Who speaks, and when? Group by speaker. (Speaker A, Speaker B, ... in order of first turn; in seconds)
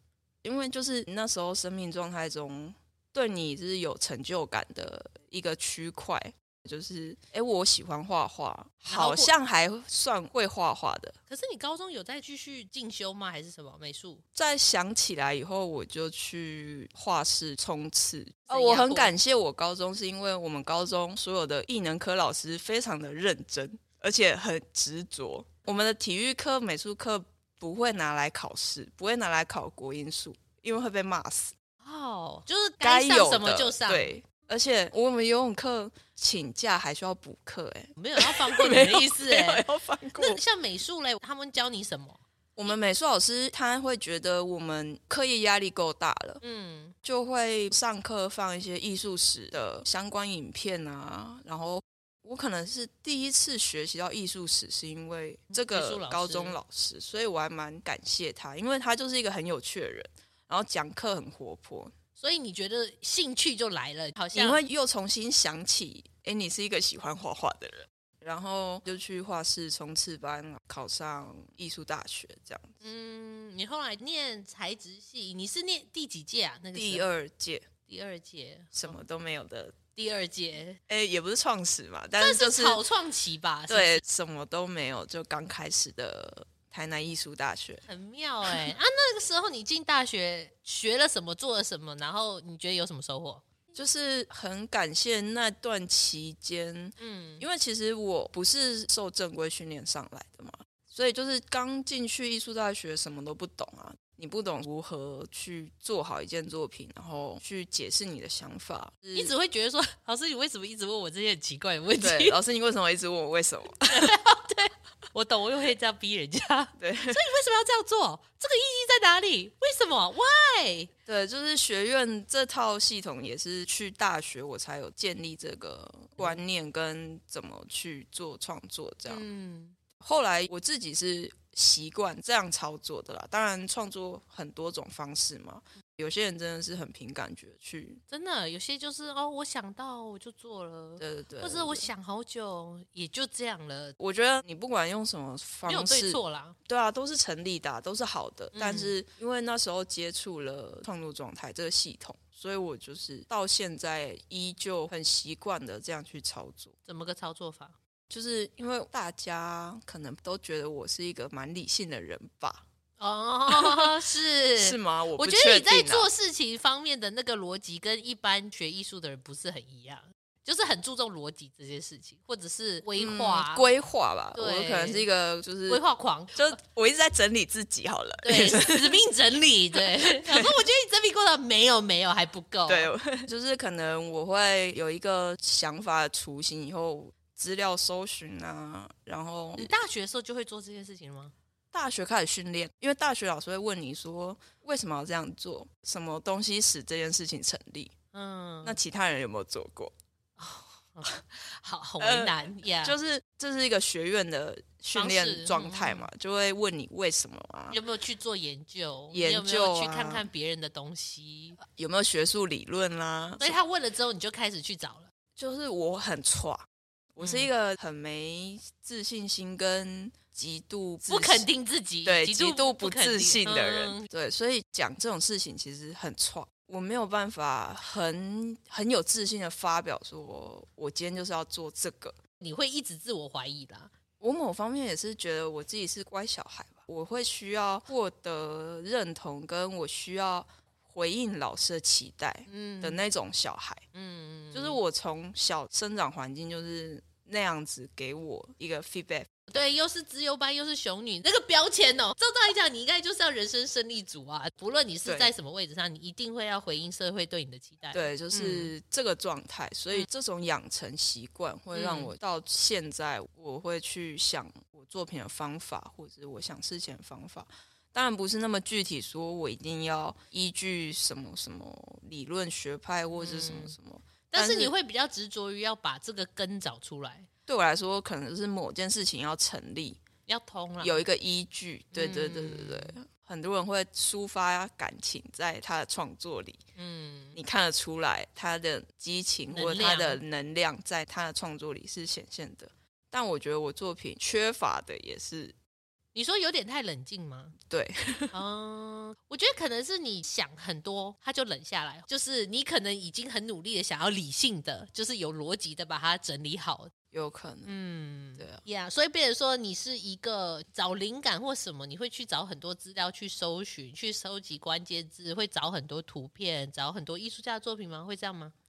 Speaker A: 0.4-11.2, 14.3-31.5, 32.8-40.4, 42.5-46.4, 47.0-61.9, 64.3-72.8, 76.7-77.7, 78.7-79.8, 80.9-82.8, 83.7-87.8, 88.5-88.7, 93.7-109.3, 112.0-114.2, 116.8-117.2, 121.1-129.2, 130.0-138.0, 141.0-141.9, 144.0-156.7, 158.1-162.6, 163.5-164.0, 164.6-166.1, 173.0-175.8, 176.3-179.0, 179.7-180.6, 182.7-189.7, 191.7-197.9, 198.6-199.9, 202.0-207.8, 209.1-210.2, 211.7-213.6, 215.3-221.4, 222.0-232.2, 234.2-243.8, 244.5-249.5, 255.0-255.3, 257.9-274.7, 277.5-280.0, 280.8-286.6, 287.3-295.6, 297.7-298.3, 307.1-307.7
Speaker B: 8.9-9.3, 11.3-14.2, 18.5-19.1, 31.8-34.1, 38.0-39.6, 40.1-42.2, 46.4-46.9, 55.5-56.6, 62.2-64.6, 72.8-77.1, 77.9-78.9, 79.9-80.8, 82.2-84.0, 87.9-93.4, 97.0-97.4, 109.1-112.4, 113.9-120.9, 129.1-129.8, 138.1-143.9, 145.7-146.6, 148.5-148.9, 156.8-157.8, 163.0-173.7, 174.3-175.1, 175.7-176.6, 178.2-182.9, 189.6-191.3, 198.1-198.8, 200.4-202.9, 204.9-206.1, 207.7-211.6, 213.4-215.1, 217.2-217.5, 221.1-224.1, 232.4-233.9, 242.5-243.0, 243.9-244.8, 249.5-258.7, 261.7-262.1, 273.1-273.7, 274.3-277.3, 280.3-281.0, 281.9-282.9, 286.8-287.4, 289.5-290.2, 296.1-297.6, 298.3-306.9, 307.6-318.5